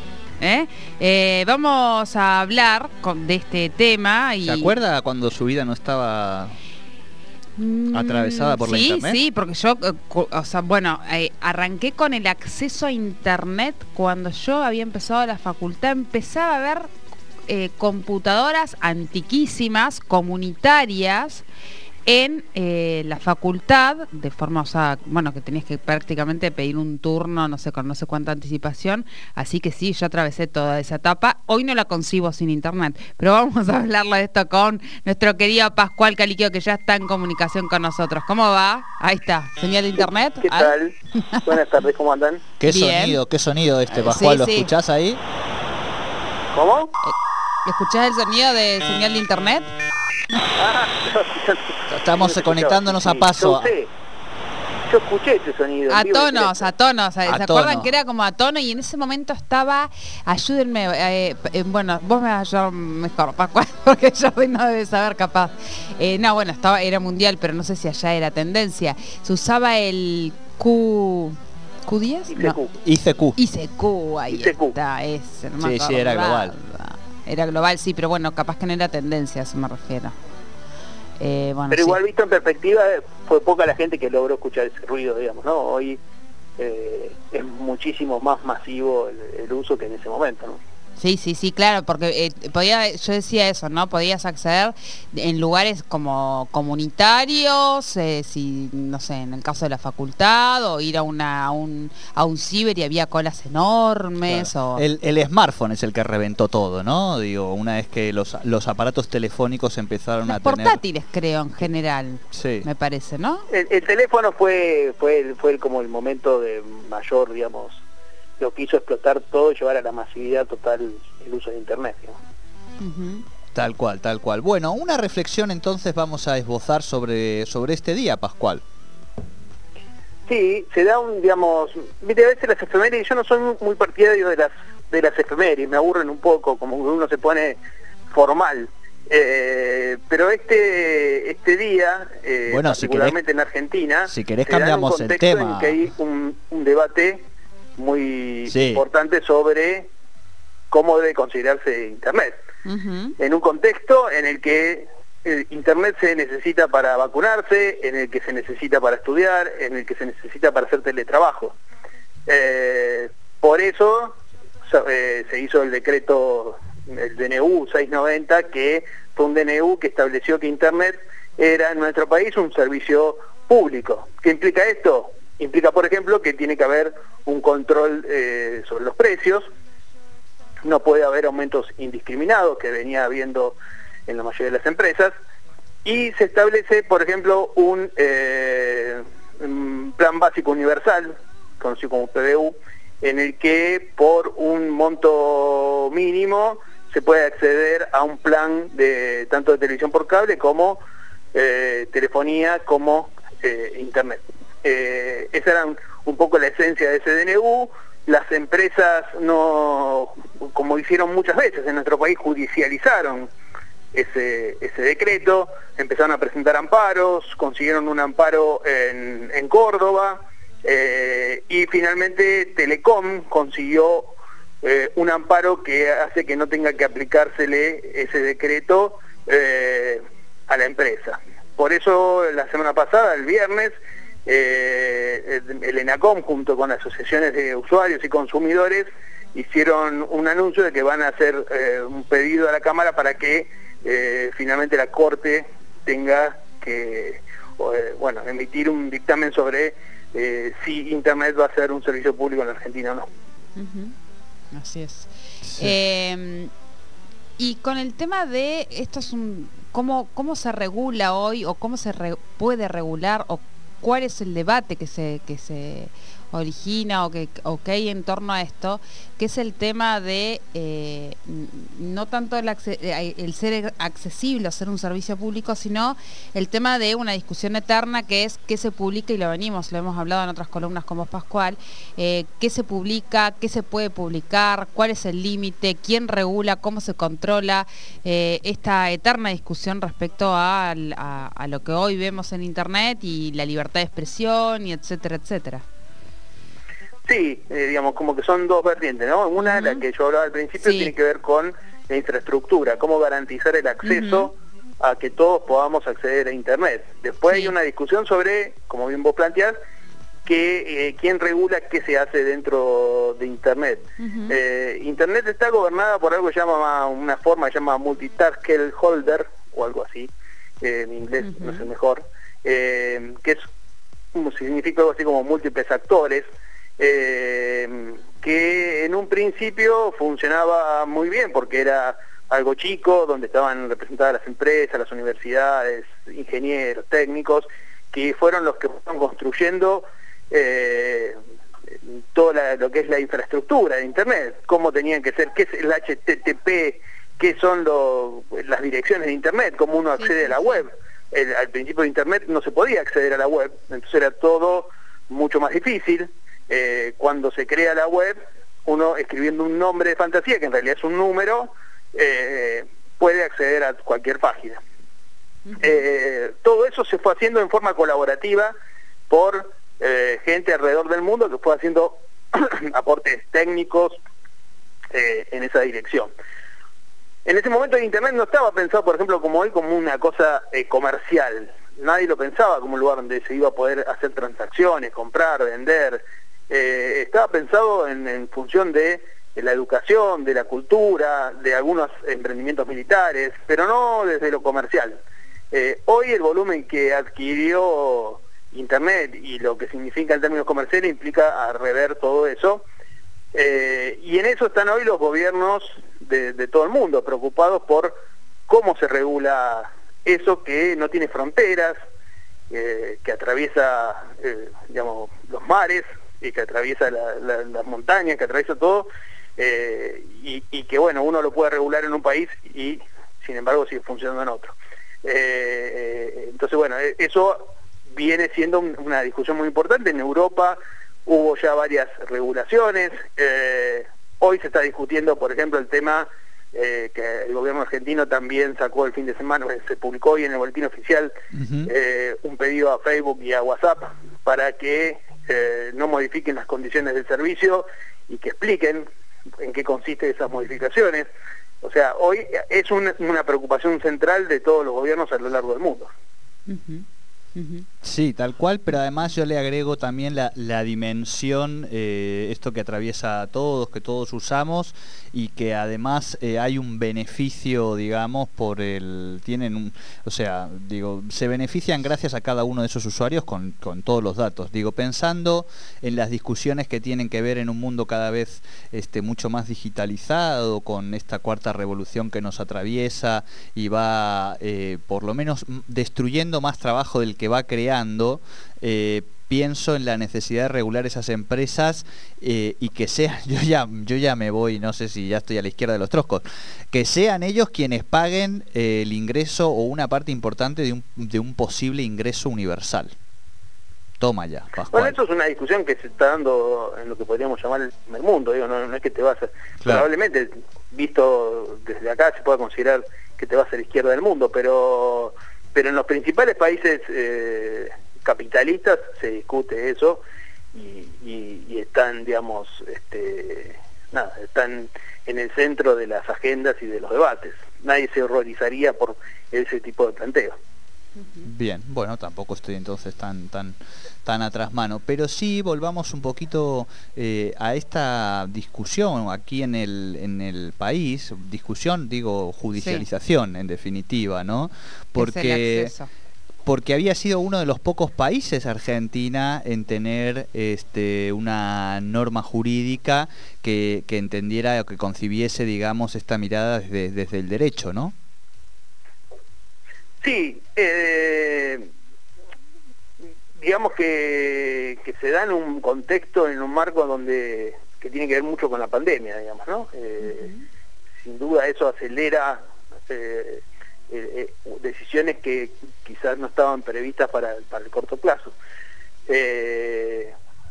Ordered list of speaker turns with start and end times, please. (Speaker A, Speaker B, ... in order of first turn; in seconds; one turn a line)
Speaker A: 0.4-4.8
Speaker B: 4.4-6.6
Speaker A: 7.6-16.9
Speaker B: 7.9-9.2
Speaker A: 17.5-21.5
Speaker A: 22.1-41.5
Speaker C: 40.0-42.4
Speaker B: 42.6-45.2
Speaker A: 42.7-43.2
Speaker A: 43.9-44.7
Speaker C: 46.5-46.9
Speaker A: 47.0-49.7
Speaker C: 50.6-53.9
Speaker B: 51.9-53.7
Speaker C: 54.9-56.7
Speaker A: 55.9-72.6
Speaker B: 57.2-57.9
Speaker C: 72.3-72.8
Speaker B: 72.8-73.4
Speaker A: 73.4-80.2
Speaker C: 74.3-74.8
Speaker B: 75.6-76.6
Speaker A: 81.2-82.0
Speaker C: 81.7-86.0
Speaker C: 86.6-90.6
Speaker A: 91.0-104.8
Speaker B: 104.3-110.8
Speaker A: 110.3-113.5
Speaker B: 112.3-112.7
Speaker C: 113.5-117.8
Speaker C: 118.4-122.2
Speaker A: 122.8-123.2
Speaker B: 123.5-128.6
Speaker C: 130.3-137.6
Speaker C: 138.1-147.2
Speaker B: 142.5-143.2
Speaker B: 144.1-145.8
Speaker C: 147.8-149.9
Speaker B: 148.5-148.8
Speaker C: 150.7-152.3
Speaker A: 152.7-153.2
Speaker C: 153.2-161.6
Speaker C: 162.3-179.5
Speaker C: 180.6-185.1
Speaker C: 185.8-200.8
Speaker C: 201.3-213.3
Speaker C: 213.9-233.7
Speaker C: 234.3-253.1
Speaker A: 253.6-253.9
Speaker A: 254.5-256.5
Speaker B: 255.4-255.7
Speaker A: 257.4-295.6
Speaker C: 297.1-309.6
Speaker A: 299.4-299.8
Speaker A: 300.6-300.9
Speaker A: 303.8-304.3
Speaker A: 307.3-307.5
Speaker C: 310.3-323.4
Speaker A: 314.0-314.4
Speaker A: 321.2-321.7
Speaker C: 324.1-326.3
Speaker C: 326.8-341.2
Speaker C: 341.8-364.6
Speaker A: 350.0-350.7
Speaker A: 365.5-365.8
Speaker C: 365.6-368.5
Speaker C: 369.1-374.0
Speaker C: 374.9-376.1
Speaker C: 377.2-402.7
Speaker C: 403.3-408.0
Speaker C: 408.5-411.8
Speaker C: 412.5-441.1
Speaker B: 441.3-441.7
Speaker C: 441.7-448.9
Speaker C: 449.4-451.1
Speaker C: 451.6-455.9
Speaker A: 456.5-457.6
Speaker B: 457.8-502.9
Speaker B: 504.0-504.9
Speaker C: 504.7-520.0
Speaker C: 520.5-530.4
Speaker B: 531.2-545.7
Speaker A: 542.6-542.9
Speaker A: 545.0-545.9
Speaker B: 546.5-557.9
Speaker C: 560.0-561.7
Speaker C: 563.4-570.3
Speaker A: 570.0-570.4
Speaker C: 571.0-578.4
Speaker C: 579.1-580.1